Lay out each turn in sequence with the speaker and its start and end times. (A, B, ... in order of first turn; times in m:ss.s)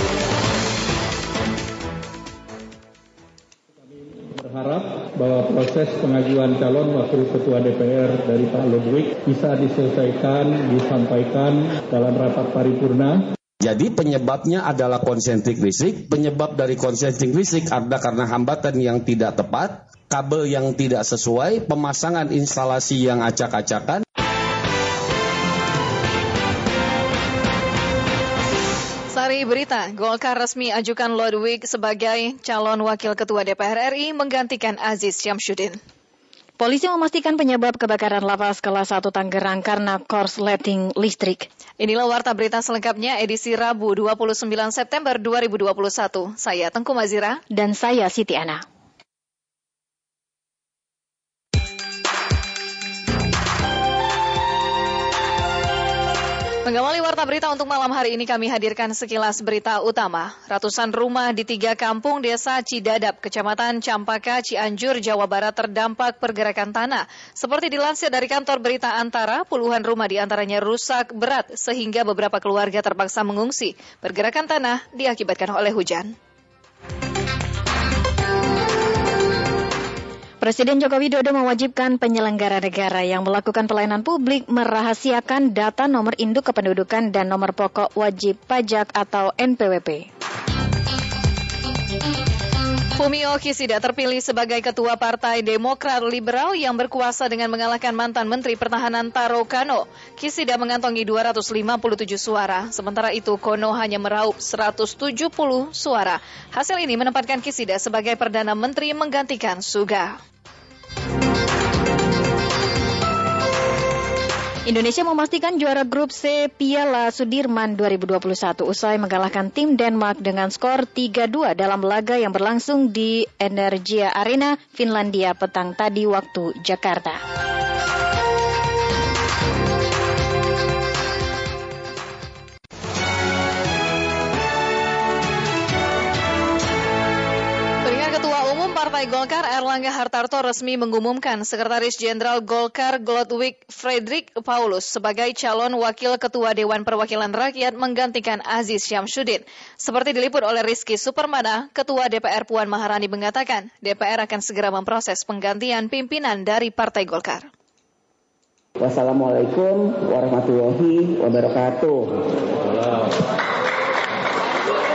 0:05.3-0:10.4 A
0:12.1-0:13.1 A
0:13.6-0:24.0 B
0:29.1-0:35.8 C
0:36.6-0:41.5 D
0:41.8-0:47.4 C
0:47.5-0:48.6 D
0:56.7-1:16.1 C
1:20.4-1:30.1 D
1:33.0-1:50.2 C
1:54.7-2:07.2 D
2:17.8-2:37.5 C
2:38.8-2:42.1 E
2:42.6-2:43.1 E